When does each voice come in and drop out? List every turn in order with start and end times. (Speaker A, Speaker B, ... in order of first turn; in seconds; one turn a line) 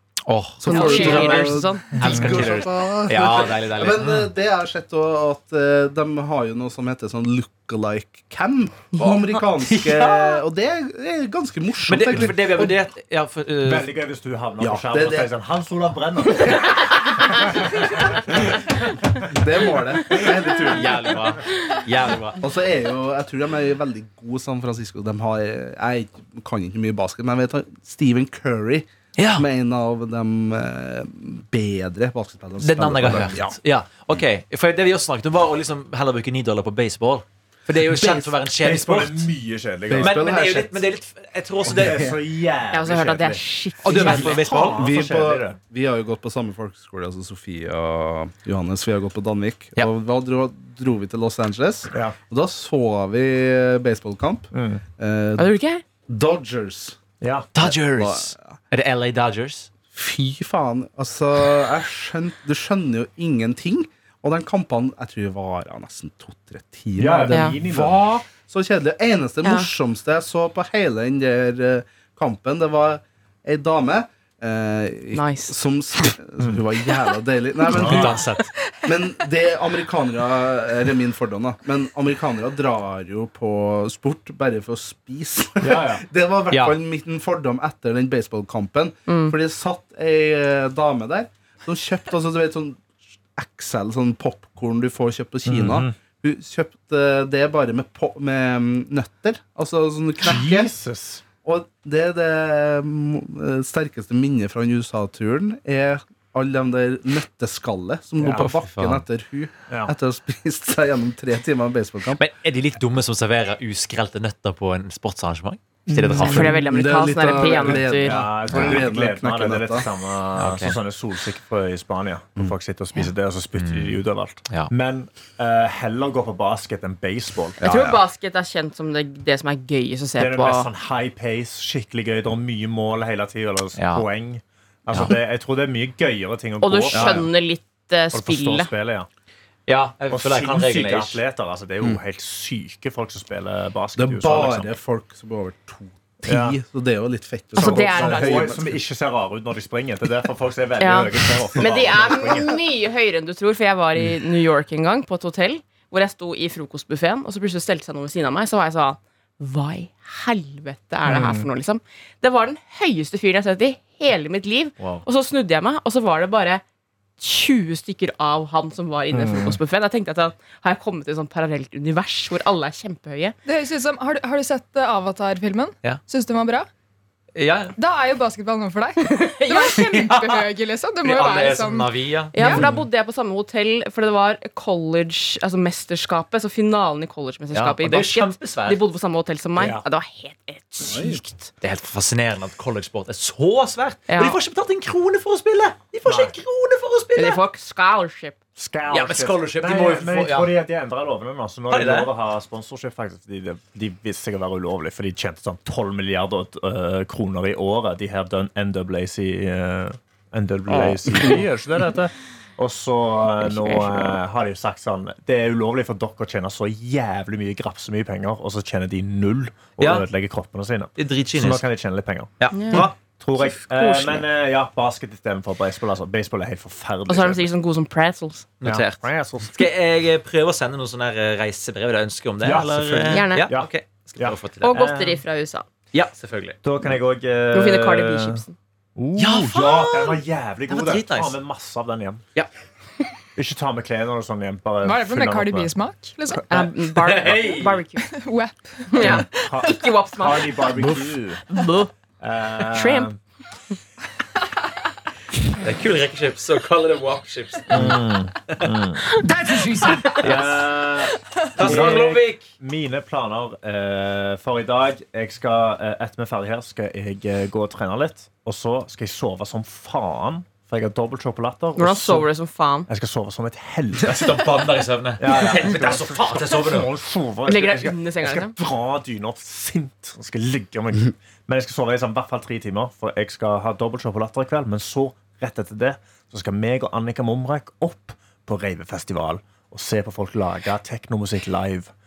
Speaker A: 0.3-4.3
Speaker B: 0.6-12.8
Speaker C: 0.6-2.4
Speaker A: 9.6-10.4
Speaker A: 11.9-13.9
Speaker D: 13.6-19.3
Speaker B: 14.6-15.3
Speaker B: 19.3-21.3
Speaker A: 20.7-22.4
Speaker B: 22.4-33.4
Speaker A: 29.2-29.5
Speaker A: 32.6-39.3
Speaker D: 33.0-33.5
Speaker B: 37.9-38.3
Speaker D: 38.6-40.5
Speaker B: 39.9-40.7
Speaker A: 40.0-42.1
Speaker D: 41.7-45.6
Speaker B: 41.8-42.1
Speaker C: 42.7-44.4
Speaker A: 43.8-44.9
Speaker B: 44.0-55.5
Speaker D: 54.5-54.8
Speaker C: 55.4-55.8
Speaker B: 56.1-57.0
Speaker D: 57.2-57.5
Speaker A: 57.5-59.7
Speaker B: 57.6-58.5
Speaker B: 59.9-78.3
Speaker D: 67.0-68.0
Speaker C: 69.4-69.7
Speaker C: 75.1-75.5
Speaker D: 77.8-78.2
Speaker A: 77.8-78.5
Speaker B: 78.9-92.8
Speaker D: 85.6-86.0
Speaker A: 86.5-86.8
Speaker C: 89.1-89.3
Speaker B: 93.4-100.7
Speaker D: 95.5-96.0
Speaker D: 100.2-101.2
Speaker B: 101.4-112.2
Speaker A: 108.3-109.0
Speaker A: 112.2-116.6
Speaker B: 116.1-119.9
Speaker C: 116.1-118.1
Speaker D: 117.9-127.6
Speaker A: 120.4-120.8
Speaker A: 123.6-124.7
Speaker C: 127.6-130.7
Speaker D: 130.2-137.3
Speaker A: 133.8-134.1
Speaker A: 134.9-135.2
Speaker C: 136.6-138.7
Speaker B: 136.9-137.2
Speaker D: 138.1-139.1
Speaker A: 139.7-141.2
Speaker D: 140.1-144.7
Speaker B: 144.0-148.8
Speaker D: 146.3-146.6
Speaker C: 147.6-148.4
Speaker D: 147.6-152.5
Speaker C: 150.8-166.6
Speaker D: 161.1-161.4
Speaker C: 167.2-173.4
Speaker D: 169.1-169.6
Speaker E: 173.4-176.7
Speaker A: 177.3-177.7
Speaker E: 177.8-182.7
Speaker C: 179.0-179.9
Speaker A: 179.8-180.4
Speaker A: 181.0-182.8
Speaker C: 182.3-191.5
Speaker A: 187.5-188.8
Speaker D: 189.6-189.8
Speaker B: 190.8-191.2
Speaker A: 191.6-197.4
Speaker C: 194.1-194.4
Speaker D: 196.1-196.3
Speaker C: 197.2-198.4
Speaker D: 198.6-227.5
Speaker A: 198.9-200.5
Speaker A: 201.7-202.1
Speaker C: 213.4-214.2
Speaker A: 219.8-220.1
Speaker A: 221.0-221.7
Speaker A: 222.4-222.9
Speaker C: 222.5-222.9
Speaker C: 223.4-224.2
Speaker C: 227.1-228.5
Speaker A: 228.6-234.8
Speaker D: 228.6-229.7
Speaker D: 232.4-235.2
Speaker C: 233.1-233.5
Speaker C: 234.6-235.7
Speaker A: 235.9-236.6
Speaker D: 236.6-238.4
Speaker C: 237.5-238.6
Speaker D: 238.9-242.2
Speaker A: 239.2-240.0
Speaker A: 240.7-241.4
Speaker D: 243.4-245.7
Speaker E: 244.8-246.4
Speaker C: 246.5-248.1
Speaker A: 246.9-247.8
Speaker E: 248.0-249.1
Speaker C: 248.9-250.7
Speaker D: 249.0-251.4
Speaker C: 251.5-251.9
Speaker D: 252.2-253.2
Speaker C: 252.7-253.1
Speaker A: 255.6-260.7
Speaker D: 257.7-259.1
Speaker C: 259.4-260.0
Speaker D: 260.2-272.3
Speaker A: 261.6-262.5
Speaker C: 271.8-272.9
Speaker D: 272.9-291.9
Speaker A: 273.9-276.9
Speaker C: 277.4-278.5